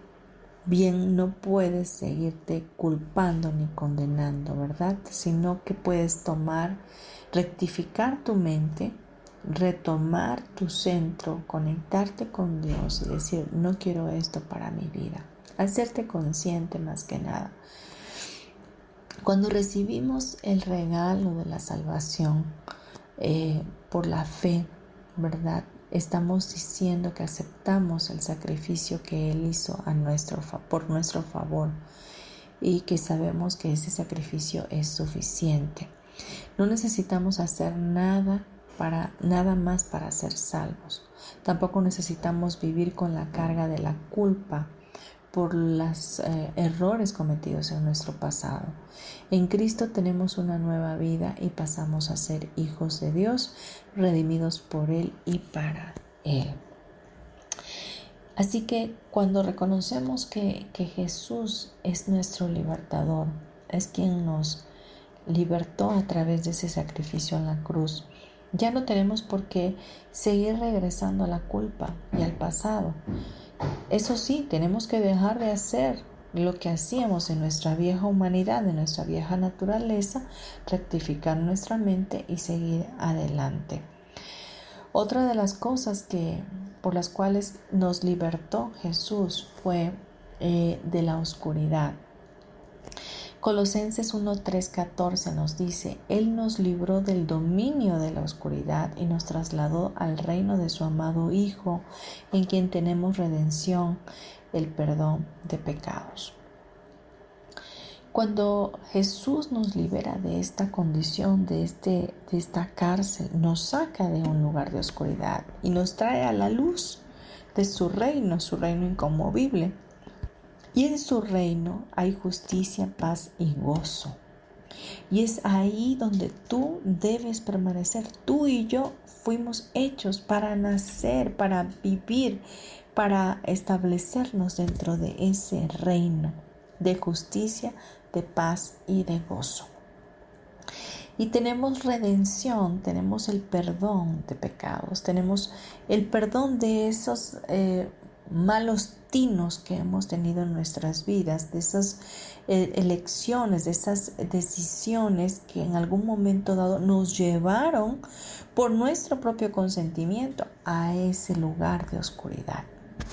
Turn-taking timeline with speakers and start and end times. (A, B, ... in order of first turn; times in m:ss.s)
0:00.6-0:17.6 A
0:19.2-0:22.6 A
0:23.2-0:31.8 A
0:32.6-0:35.9 A
0:36.6-0:44.7 A
0:45.3-0:48.8 A
0:49.3-0:56.6 A
0:58.4-1:04.7 A
1:05.3-1:13.0 A
1:13.9-1:23.9 A
1:24.9-1:32.0 A
1:33.4-1:46.4 A
1:48.1-1:59.8 A
2:00.7-2:04.2 A
2:05.1-2:19.7 A
2:21.2-2:38.0 A
2:38.5-2:42.7 A